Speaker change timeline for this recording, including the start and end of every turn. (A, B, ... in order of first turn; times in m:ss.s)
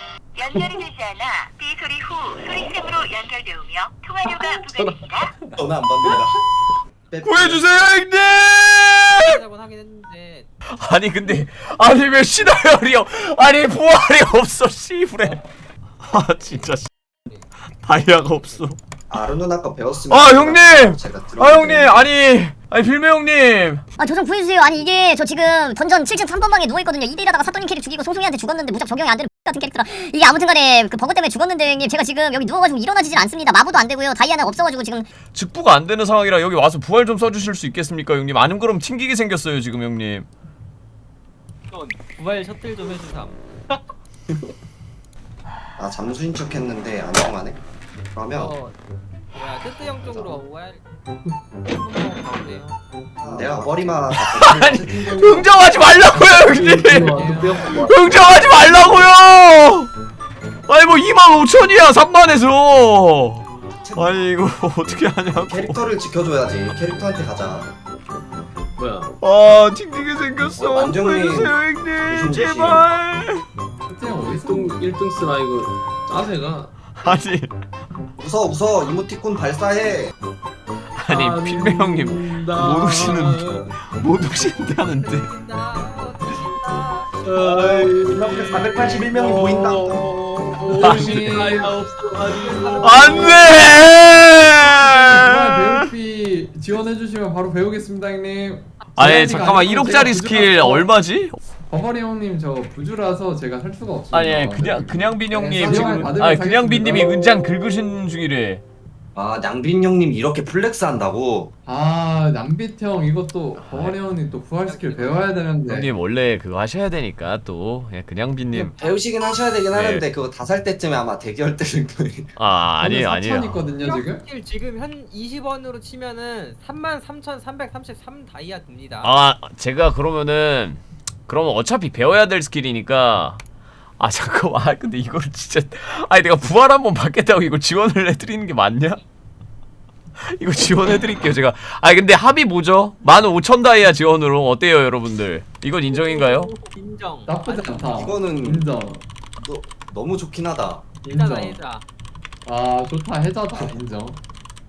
0:00.4-0:05.3 A
0:04.6-0:05.6 B
0:05.6-0:06.4 C
0:07.1-0:07.7 C
0:07.2-0:09.4 D
0:09.2-0:10.5 E
0:10.7-0:15.4 D
0:16.0-0:16.9 D
0:17.8-0:18.8 D
0:19.1-0:22.1 C
0:20.1-0:23.8 D
0:24.0-0:35.1 F
0:35.2-0:40.3 D
0:41.7-0:43.8 E
0:45.8-0:47.6 C
0:48.1-0:48.6 C
0:48.3-0:48.8 E
0:49.3-0:50.8 E
0:50.0-0:50.4 C
0:51.6-0:52.8 E
0:53.2-0:55.5 C
0:54.1-0:59.9 D
0:56.4-0:58.0 B
0:56.5-0:57.8 G
1:00.7-1:05.8 D
1:03.8-1:04.3 C
1:05.4-1:07.7 C
1:08.8-1:09.1 B
1:09.2-1:13.4 D
1:10.6-1:12.9 C
1:13.9-1:14.8 G
1:14.3-1:16.7 B
1:17.0-1:17.5 D
1:18.2-1:20.1 C
1:21.0-1:25.3 D
1:21.1-1:23.7 B
1:24.7-1:27.1 E
1:27.2-1:33.4 B
1:27.4-1:30.0 C
1:29.2-1:30.0 D
1:30.5-1:31.7 G
1:30.8-1:31.3 D
1:32.4-1:33.5 E
1:32.8-1:35.8 D
1:34.7-1:40.9 G
1:39.0-1:41.4 D
1:41.7-1:45.1 G
1:44.1-1:48.6 D
1:45.3-1:46.1 C
1:45.6-1:47.1 G
1:49.1-1:51.5 C
1:51.6-1:55.9 G
1:53.6-1:54.0 D
1:54.6-1:55.4 E
1:55.6-1:58.7 D
1:58.5-2:02.3 C
1:59.7-2:00.0 D
2:02.4-2:03.6 D
2:02.8-2:04.2 G
2:03.8-2:09.1 E
2:09.0-2:13.4 D
2:14.0-2:19.0 D
2:20.3-2:26.5 D
2:25.9-2:27.9 E
2:27.3-2:29.0 G
2:27.9-2:28.7 C
2:29.4-2:30.8 C
2:31.0-2:31.6 G
2:31.1-2:31.8 E
2:32.4-2:34.2 G